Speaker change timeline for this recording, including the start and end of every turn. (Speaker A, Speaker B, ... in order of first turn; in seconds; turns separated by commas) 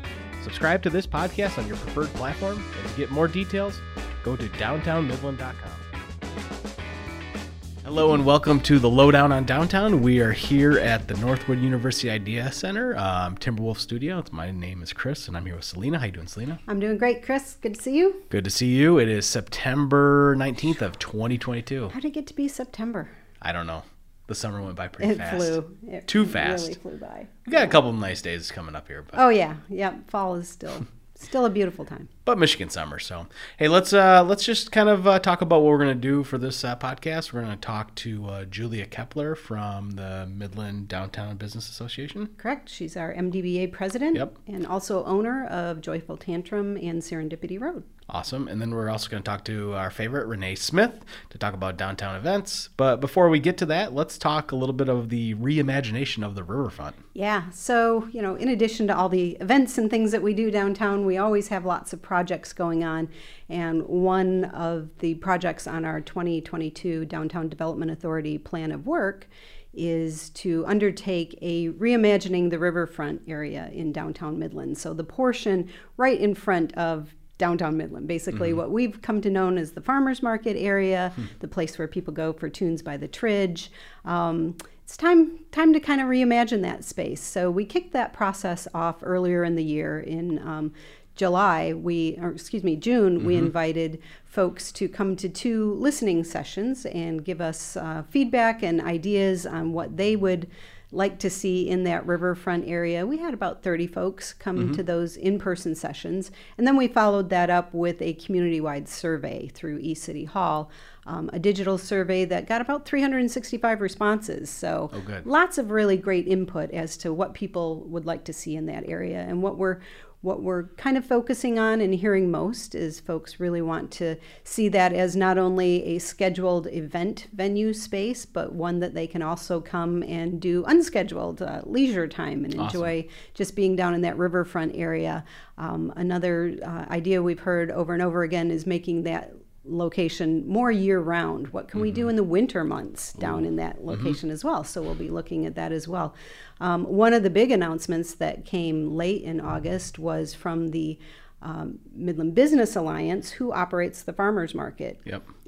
Speaker A: 0.4-5.8, Speaker A: 7.8-16.6, Speaker B: 16.7-18.2, Speaker A: 18.3-21.9, Speaker B: 21.9-23.1, Speaker A: 23.4-26.8, Speaker B: 25.0-27.8, Speaker A: 27.5-29.2, Speaker B: 29.1-32.1, Speaker A: 32.2-42.3, Speaker B: 42.4-47.8, Speaker A: 48.1-57.0, Speaker B: 57.1-155.1, Speaker A: 93.2-93.5, Speaker A: 114.9-115.3, Speaker A: 132.6-132.9, Speaker A: 141.7-142.0